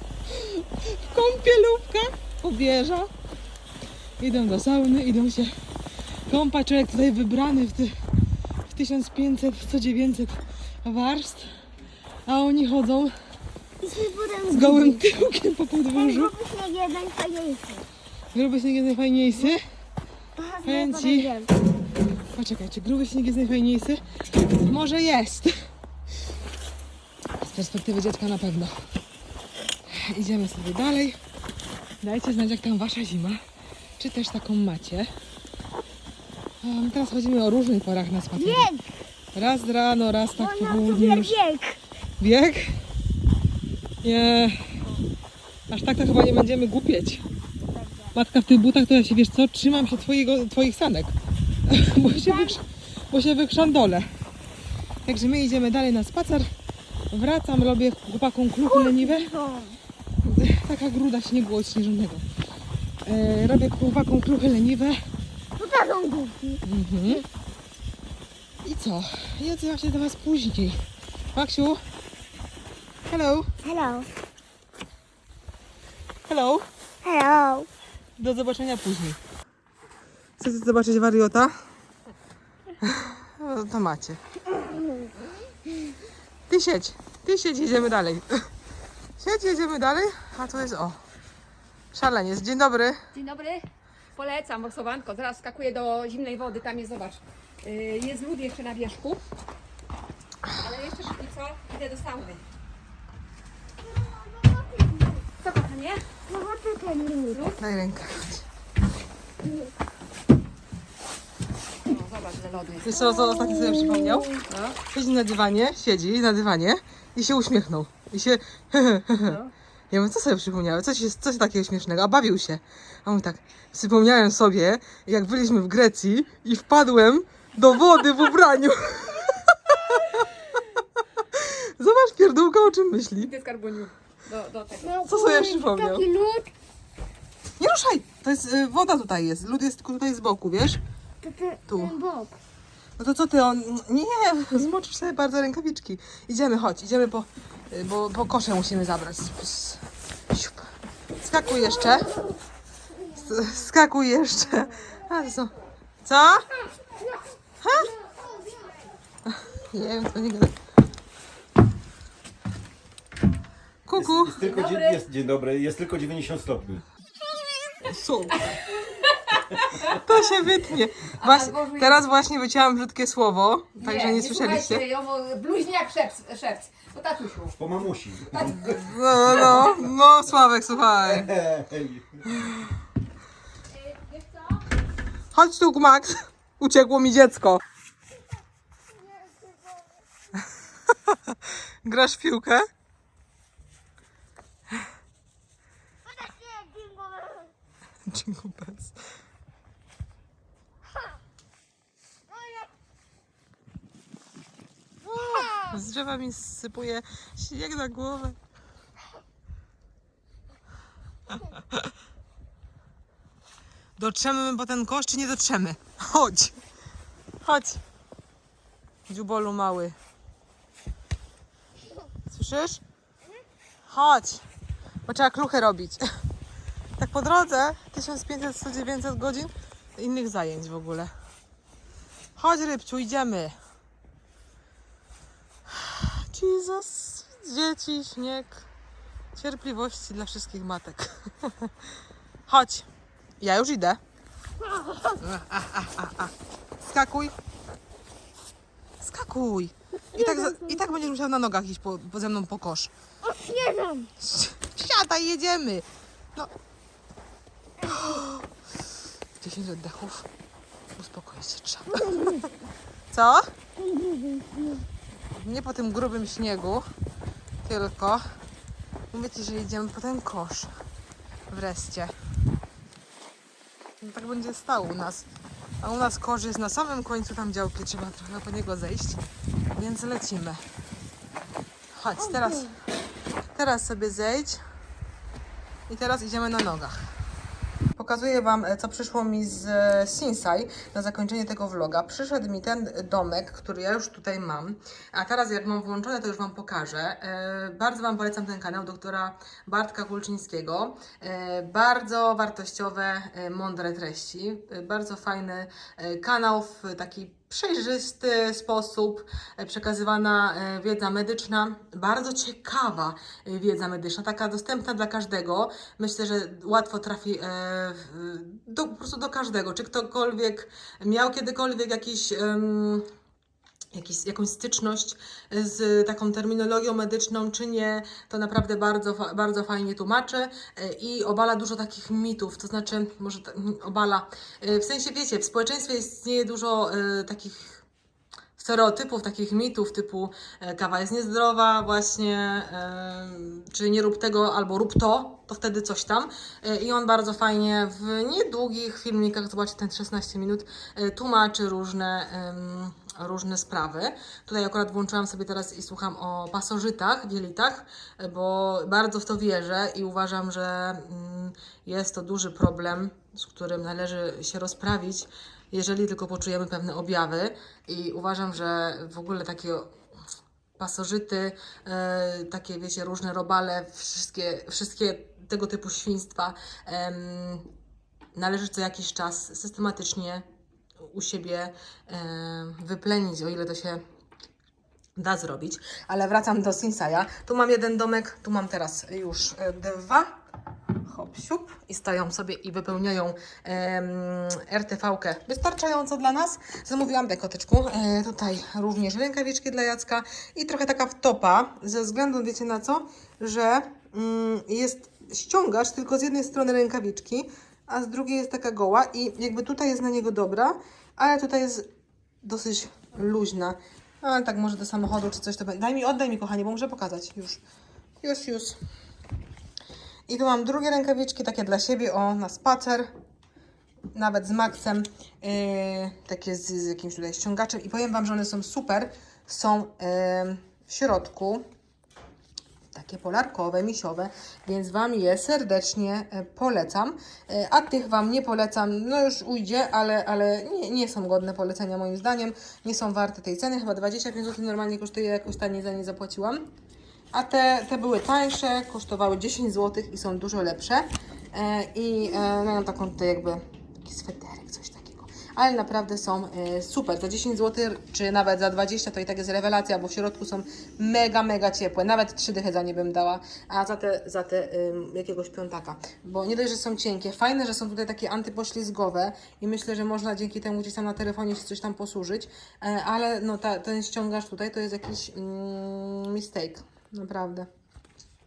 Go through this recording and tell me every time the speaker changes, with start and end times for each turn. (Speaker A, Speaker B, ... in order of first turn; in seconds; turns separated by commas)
Speaker A: 0.3-3.1, Speaker A: 4.2-5.5, Speaker A: 6.3-8.0, Speaker A: 8.7-11.5, Speaker A: 12.3-13.1, Speaker B: 13.8-15.1, Speaker A: 14.5-16.3, Speaker B: 15.9-17.9, Speaker A: 18.3-19.6, Speaker B: 20.4-21.5, Speaker A: 20.6-21.3, Speaker A: 22.3-25.6, Speaker A: 27.4-28.8, Speaker A: 29.9-31.2, Speaker A: 32.0-33.4, Speaker A: 34.0-35.1, Speaker A: 36.6-38.7, Speaker B: 38.4-39.0, Speaker A: 39.3-41.4, Speaker B: 40.4-41.8, Speaker A: 42.2-42.8, Speaker A: 44.0-44.8, Speaker A: 45.7-47.2, Speaker B: 47.6-48.1, Speaker A: 48.1-51.1, Speaker A: 51.7-54.1, Speaker B: 52.0-52.6, Speaker A: 55.1-56.5, Speaker A: 57.1-59.3, Speaker B: 58.7-59.8, Speaker A: 60.2-62.2, Speaker A: 63.0-65.0, Speaker B: 65.6-67.2, Speaker A: 66.6-67.2, Speaker A: 68.6-71.8, Speaker A: 73.1-73.5, Speaker B: 73.6-74.1, Speaker A: 76.3-76.7, Speaker B: 77.0-77.7, Speaker A: 78.2-79.2, Speaker A: 80.4-81.6, Speaker A: 82.8-84.2, Speaker A: 86.5-88.5, Speaker A: 89.2-91.0, Speaker A: 91.9-93.0, Speaker C: 93.1-99.2, Speaker C: 100.5-102.4, Speaker B: 103.8-105.3, Speaker C: 105.4-106.2, Speaker B: 106.2-107.5, Speaker C: 107.3-107.6, Speaker A: 107.6-108.5, Speaker C: 111.9-113.0, Speaker A: 112.8-130.3, Speaker C: 114.5-114.8, Speaker C: 119.2-119.5, Speaker A: 131.2-133.3, Speaker C: 133.2-134.9, Speaker B: 134.8-136.5, Speaker A: 135.0-136.1, Speaker A: 137.6-140.8, Speaker B: 141.2-142.4, Speaker A: 141.7-142.0, Speaker A: 143.0-150.7, Speaker A: 151.2-152.1, Speaker A: 153.1-156.5, Speaker A: 157.6-157.9, Speaker B: 158.3-158.7, Speaker A: 159.3-160.6, Speaker A: 163.9-164.4, Speaker D: 164.0-166.8, Speaker C: 164.4-164.9, Speaker A: 167.7-168.4, Speaker C: 168.7-169.9, Speaker A: 169.8-174.8, Speaker C: 171.2-172.0, Speaker C: 173.8-177.6, Speaker D: 177.6-178.8, Speaker C: 178.3-178.7, Speaker A: 178.6-181.3, Speaker D: 181.4-182.0, Speaker C: 183.8-184.5, Speaker A: 185.3-187.6, Speaker B: 188.9-190.0, Speaker A: 190.9-192.7, Speaker B: 196.1-197.5, Speaker A: 198.1-199.0, Speaker B: 202.3-202.7, Speaker B: 205.1-205.7, Speaker A: 205.4-208.4, Speaker A: 214.0-216.6, Speaker A: 217.4-217.8, Speaker A: 219.1-220.0, Speaker A: 222.3-222.8, Speaker A: 223.9-224.4, Speaker A: 225.1-226.0, Speaker A: 227.0-231.1, Speaker A: 232.4-233.6, Speaker A: 235.7-238.7, Speaker A: 239.3-241.7, Speaker A: 242.5-242.9, Speaker A: 243.4-244.0, Speaker B: 244.7-245.2, Speaker A: 245.2-247.4, Speaker A: 249.0-252.9, Speaker B: 250.2-250.8, Speaker B: 253.2-254.1, Speaker A: 254.2-256.5, Speaker A: 257.8-258.5, Speaker A: 259.4-260.3, Speaker A: 261.0-262.5, Speaker B: 262.0-262.4, Speaker A: 263.1-263.5, Speaker B: 263.8-264.9, Speaker A: 265.3-266.9, Speaker A: 267.6-268.2, Speaker A: 269.1-270.7, Speaker A: 271.5-272.1, Speaker A: 274.0-275.3, Speaker A: 275.8-279.2, Speaker A: 279.7-280.6, Speaker A: 281.9-282.7, Speaker B: 282.2-282.7, Speaker A: 283.5-284.6, Speaker A: 285.9-287.1, Speaker A: 288.0-323.1, Speaker A: 323.9-337.8, Speaker A: 338.6-369.9, Speaker A: 370.8-377.7, Speaker A: 378.4-380.4, Speaker A: 381.1-384.0, Speaker A: 385.2-390.3, Speaker A: 391.1-411.9, Speaker A: 412.4-417.6, Speaker A: 418.2-418.8, Speaker A: 420.3-423.1, Speaker A: 424.1-431.6, Speaker A: 432.9-446.7, Speaker A: 447.3-477.7